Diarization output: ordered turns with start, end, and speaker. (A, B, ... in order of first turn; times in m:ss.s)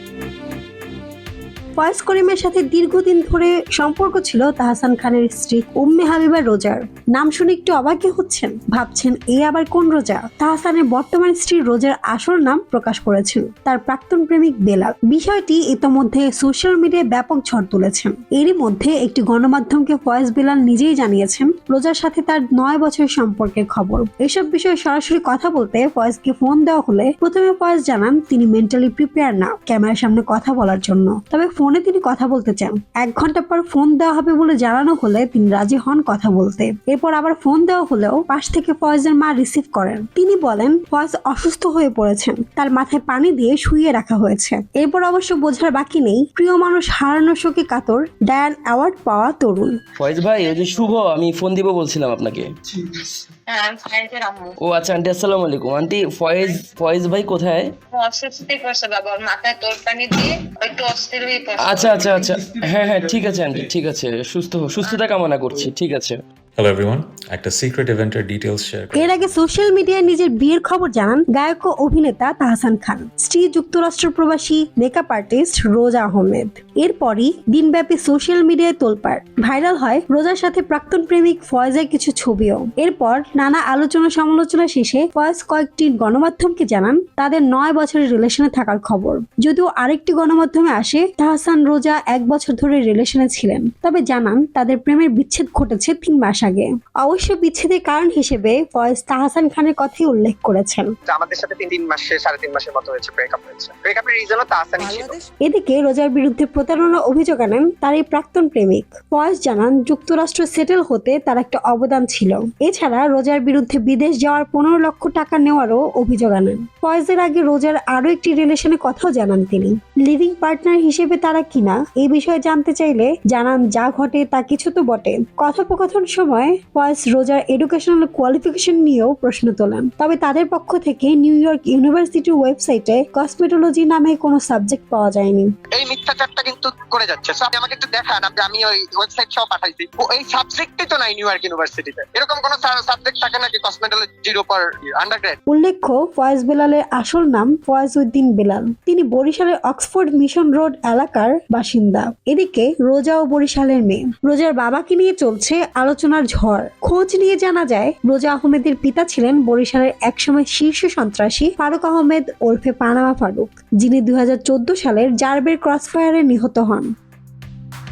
0:01.8-0:49.8 A
0:50.0-0:52.5 B
0:53.5-0:54.6 C
0:54.6-0:57.7 B
0:57.9-1:02.3 C
1:01.6-1:06.2 B
1:06.6-1:09.2 D
1:08.9-1:40.9 A
1:41.0-1:45.2 E
1:45.4-2:15.5 A
2:15.7-2:25.4 E
2:25.5-2:46.9 A